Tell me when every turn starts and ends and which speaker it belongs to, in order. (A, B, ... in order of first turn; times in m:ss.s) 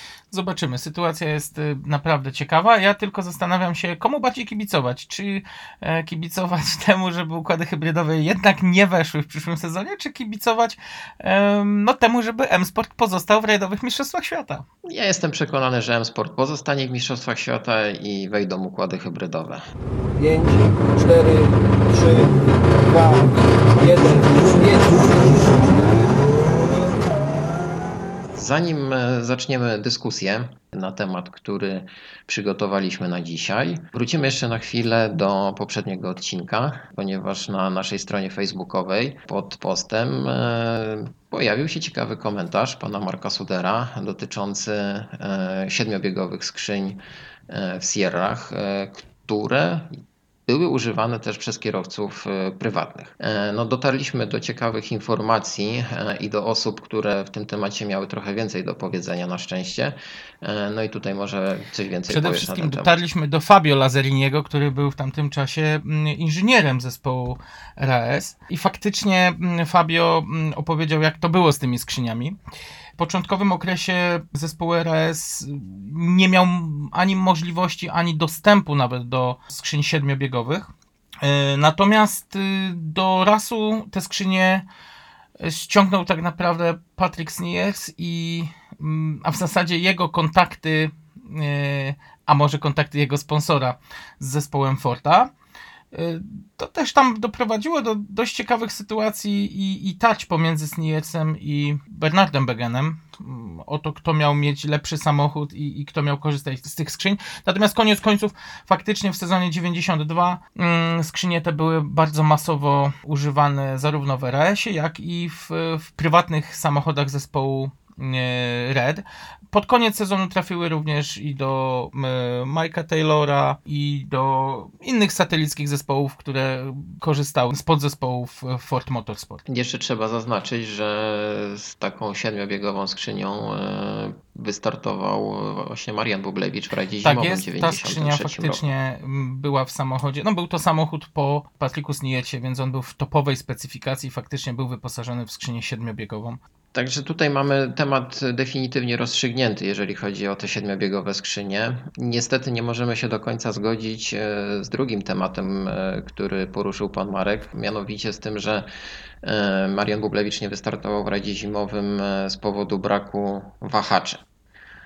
0:00.3-0:14.6 A
0:14.8-0:19.6 B
0:20.2-0:26.4 C
0:28.4-1:02.9 B
1:02.1-1:12.4 A
1:13.0-1:20.7 A
1:21.2-1:24.6 A
1:25.4-1:35.3 A
1:35.9-2:09.4 A
2:09.5-2:18.6 B
2:17.0-2:26.4 A
2:26.7-2:38.7 B
2:39.2-2:44.2 B